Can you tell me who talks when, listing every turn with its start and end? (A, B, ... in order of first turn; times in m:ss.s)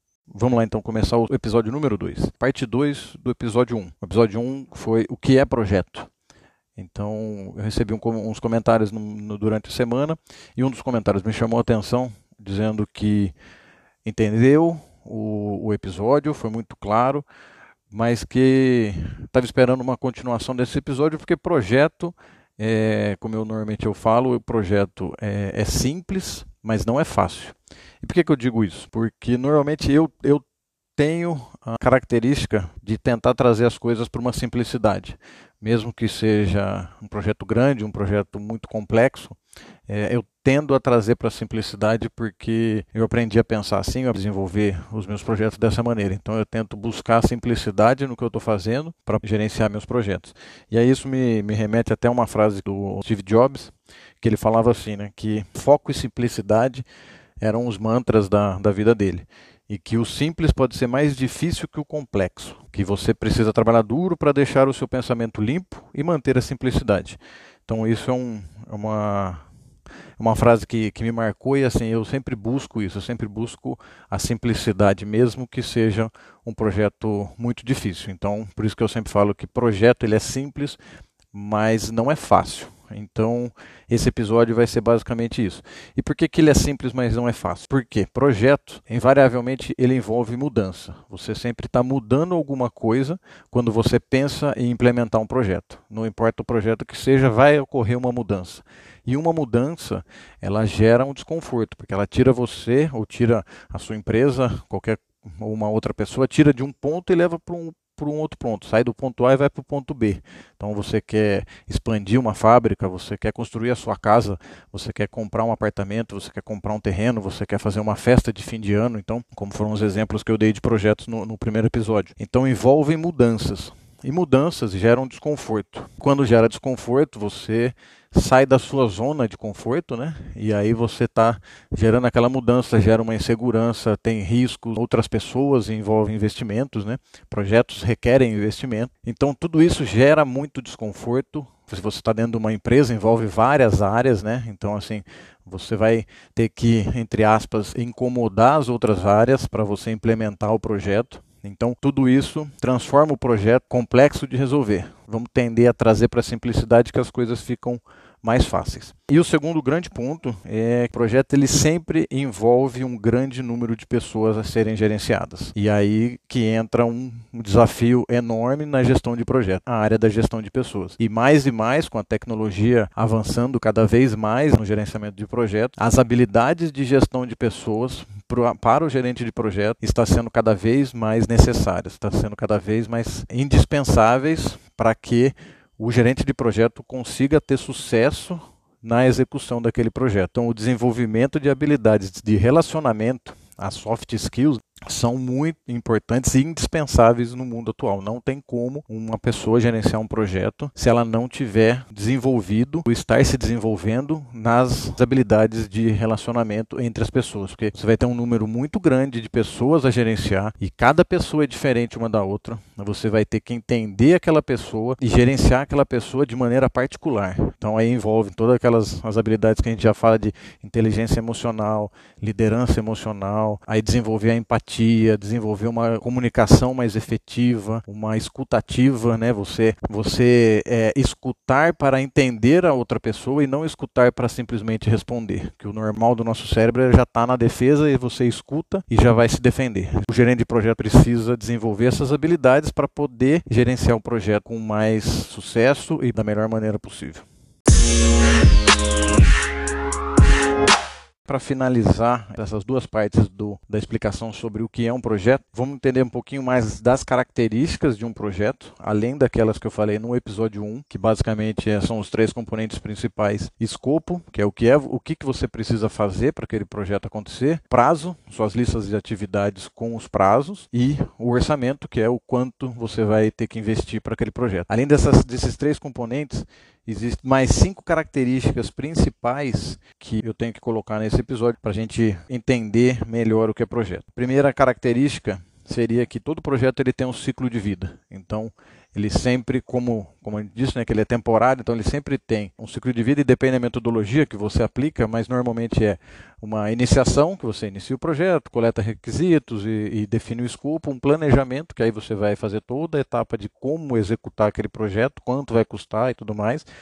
0:00.3-0:06.1 A
0:06.8-0:13.3 A
0:14.0-0:17.2 A
0:17.9-0:30.4 A
0:31.0-0:39.4 A
0:39.9-0:56.8 A
0:57.4-1:09.4 A
1:10.2-1:20.8 A
1:21.3-4:07.2 A
4:11.2-5:06.6 A